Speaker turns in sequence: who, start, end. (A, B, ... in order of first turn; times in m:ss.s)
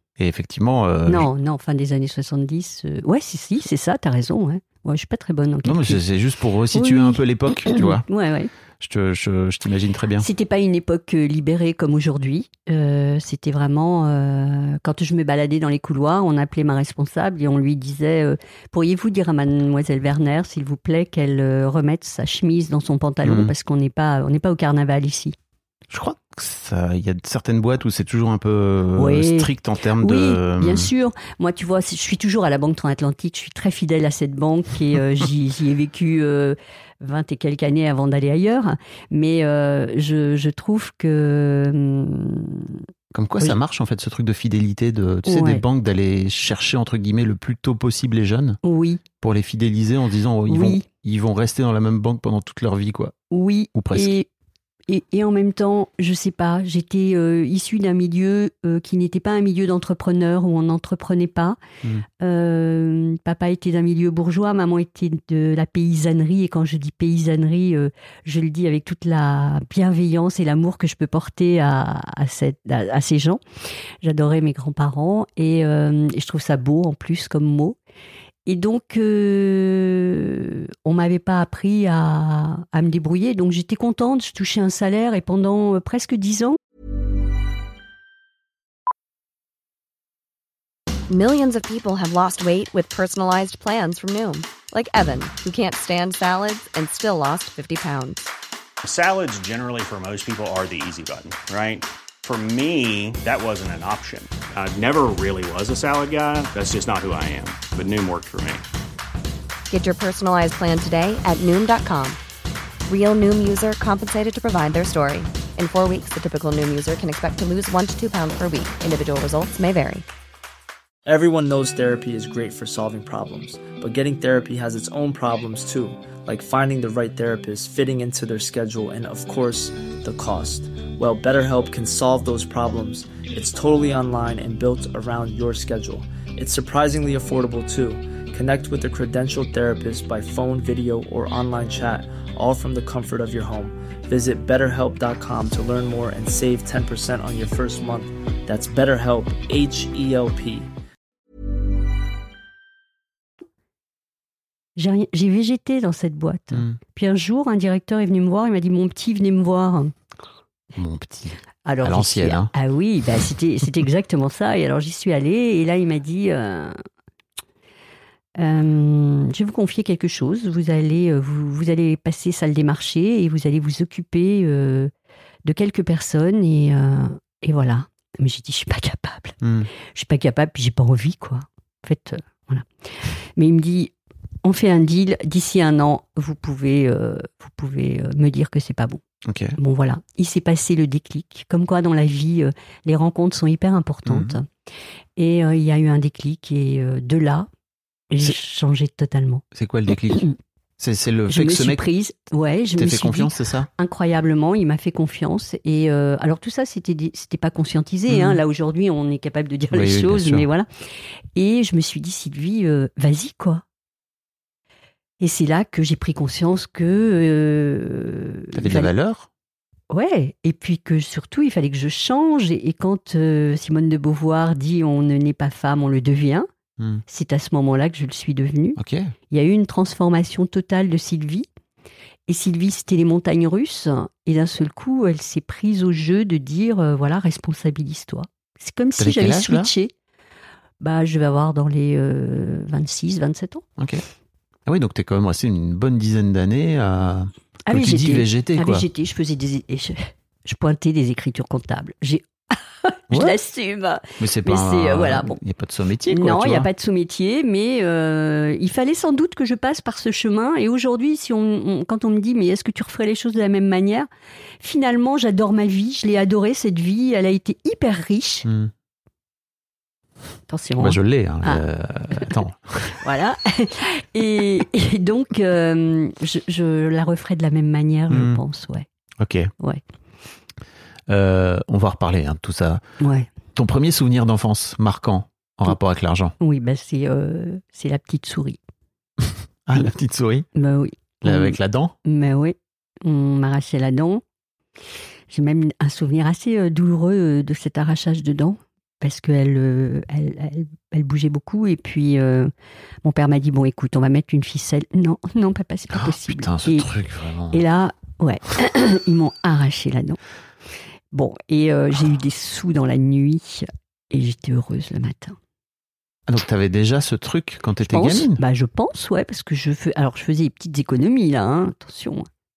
0:00.2-0:01.3 A
0:01.1-0:06.0 B
0:05.6-0:08.0 A
0:06.7-0:08.5 B
0:08.8-0:10.3 A
0:10.2-0:25.4 B
0:23.2-0:23.5 A
0:25.9-0:30.9 A
0:29.0-0:42.8 B
0:43.1-0:48.6 A
0:45.3-0:45.6 B
0:48.6-0:49.0 B
0:49.2-0:53.1 A
0:50.5-0:50.8 B
0:53.3-0:54.3 B
0:53.7-0:54.1 A
0:54.9-1:01.6 B
1:02.2-1:13.4 B
1:14.0-1:17.8 B
1:18.4-1:26.6 B
1:31.1-1:38.3 C
1:38.8-1:48.6 D
1:49.7-1:52.2 C
1:52.9-2:00.0 C
2:01.0-2:30.7 E
2:34.8-2:39.9 B
2:36.5-2:36.8 A
2:40.8-2:42.5 A
2:41.6-2:46.8 B
2:48.4-2:54.9 B
2:55.4-2:59.4 B
2:59.4-2:59.7 A
2:59.9-3:03.9 B
3:04.4-3:09.0 B
3:09.2-3:09.6 A
3:09.6-3:14.5 B
3:14.0-3:14.4 A
3:15.2-3:17.5 B
3:18.1-3:19.4 B
3:19.5-3:21.8 A
3:21.3-3:30.7 B
3:22.8-3:23.7 A
3:28.1-3:28.4 A
3:29.7-3:30.5 A
3:31.3-3:33.6 B
3:35.2-3:38.9 B
3:38.5-3:39.3 A
3:39.9-3:46.5 B
3:46.8-3:47.0 A
3:47.1-3:48.8 B
3:48.8-3:49.1 A
3:49.3-3:51.5 B
3:52.3-3:59.9 B
3:59.0-3:59.7 A
4:00.8-4:03.6 B
4:03.8-4:04.0 A
4:04.6-4:08.9 A
4:07.7-4:15.4 B
4:13.1-4:13.4 A
4:14.2-4:16.7 A
4:16.1-4:24.1 B
4:24.6-4:28.5 B
4:28.4-4:28.7 A
4:30.5-4:31.6 B
4:30.8-4:33.0 A
4:33.0-4:38.9 B
4:38.1-4:38.4 A
4:39.2-4:39.5 A
4:41.1-4:42.8 A
4:43.0-4:43.3 B
4:43.5-4:46.3 A
4:46.4-4:48.6 B
4:49.6-4:50.5 A
4:50.6-4:54.2 B
4:51.2-4:51.9 A
4:55.3-5:02.5 B
5:03.0-5:06.9 B
5:05.9-5:07.6 A
5:07.5-5:10.2 B
5:11.1-5:15.4 B
5:16.3-5:18.4 A
5:17.9-5:22.3 B